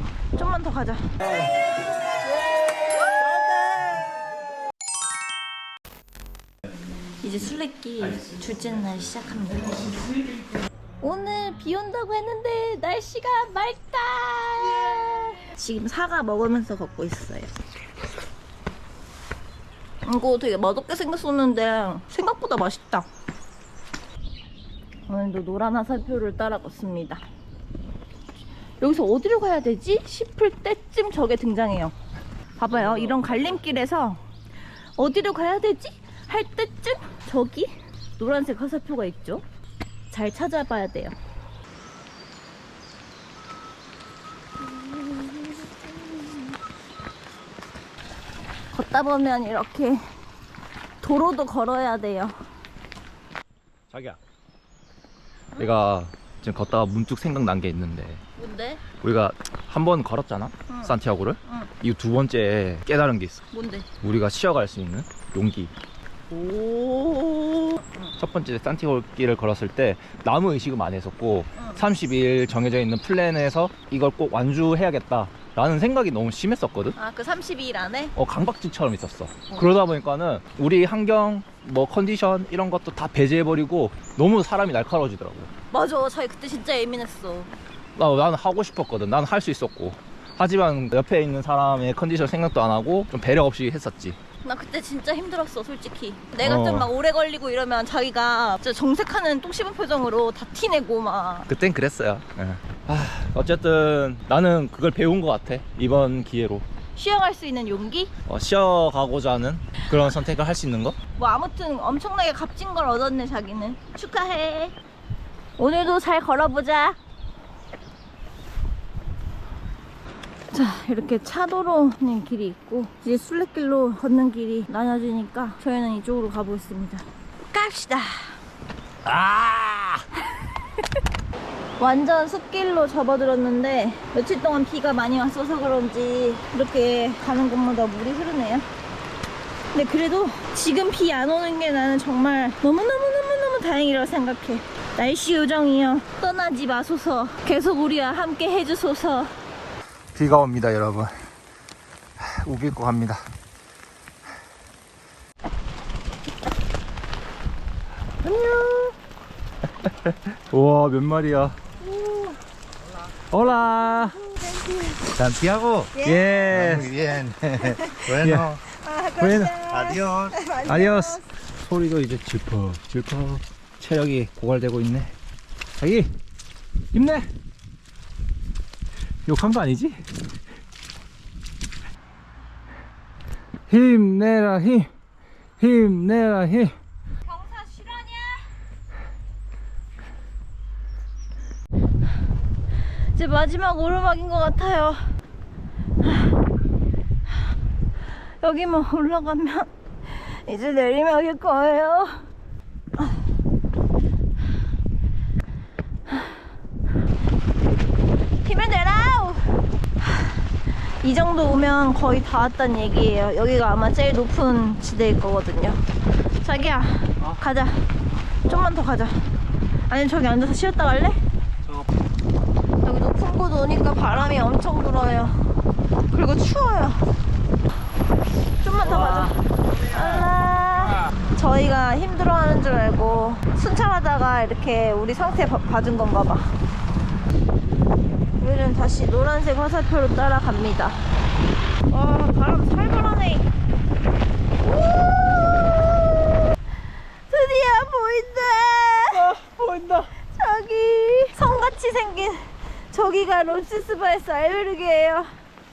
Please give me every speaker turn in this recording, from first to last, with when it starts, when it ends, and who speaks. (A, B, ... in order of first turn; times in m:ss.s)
0:00.3-0:01.1 A
0:03.0-0:03.4 A
0:03.2-0:04.0 B
0:07.2-0:10.0 A
0:11.0-0:17.5 A
0:20.0-0:23.1 A
0:25.1-0:27.2 A
0:28.8-0:31.9 A
0:32.6-0:34.2 A
0:32.9-0:33.2 B
0:35.0-0:39.4 A
0:40.1-0:41.2 A
0:44.7-0:46.3 A
0:48.7-0:50.0 A
0:51.0-0:52.3 A
0:53.9-0:54.2 B
0:55.6-0:58.2 B
0:58.4-0:58.8 A
0:59.0-1:03.4 B
1:01.4-1:01.7 A
1:03.5-1:03.9 A
1:04.0-1:05.7 B
1:06.3-1:08.1 A
1:08.2-1:17.0 B
1:17.0-1:18.1 A
1:18.2-1:25.5 B
1:25.7-1:27.5 A
1:28.0-1:34.2 B
1:34.4-1:41.5 A
1:36.4-1:36.9 B
1:41.5-1:46.6 B
1:47.0-1:48.1 A
1:48.3-1:51.0 B
1:51.2-1:54.8 A
1:55.6-1:57.0 A
2:00.5-2:08.4 A
2:09.0-2:10.0 B
2:10.3-2:11.0 A
2:11.8-2:18.7 A
2:19.7-2:29.3 A
2:30.1-2:31.1 B
2:32.2-2:33.2 B
2:38.2-2:38.9 B
2:39.8-2:41.6 B
2:41.9-2:42.3 A
2:43.3-2:44.2 B
2:44.2-2:45.1 A
2:45.2-2:47.0 B
2:45.3-2:45.9 C
2:45.9-2:46.6 A
2:46.7-2:48.3 C
2:47.6-2:48.1 A
2:48.1-2:48.6 B
2:48.7-2:51.2 A
2:49.2-2:49.6 B
2:49.7-2:50.3 C
2:50.7-2:55.1 B
2:55.8-2:56.1 B
2:56.9-2:57.3 B
2:59.2-3:00.0 B
3:03.7-3:04.9 B
3:05.6-3:06.7 B
3:07.3-3:08.5 A
3:13.1-3:15.0 A
3:16.0-3:16.4 A
3:18.4-3:22.2 A
3:26.1-3:26.4 A
3:28.4-3:30.5 A
3:31.0-3:35.8 A
3:36.4-3:37.8 A
3:38.5-3:39.2 A
3:39.9-3:41.2 A
3:42.8-3:45.6 A
3:46.1-3:47.1 A
3:48.6-3:56.5 A
3:48.9-3:49.2 B
3:58.4-4:01.0 A
4:01.9-4:03.5 A
4:04.6-4:06.5 A
4:07.3-4:09.3 A
4:09.1-4:10.1 B
4:10.3-4:15.3 A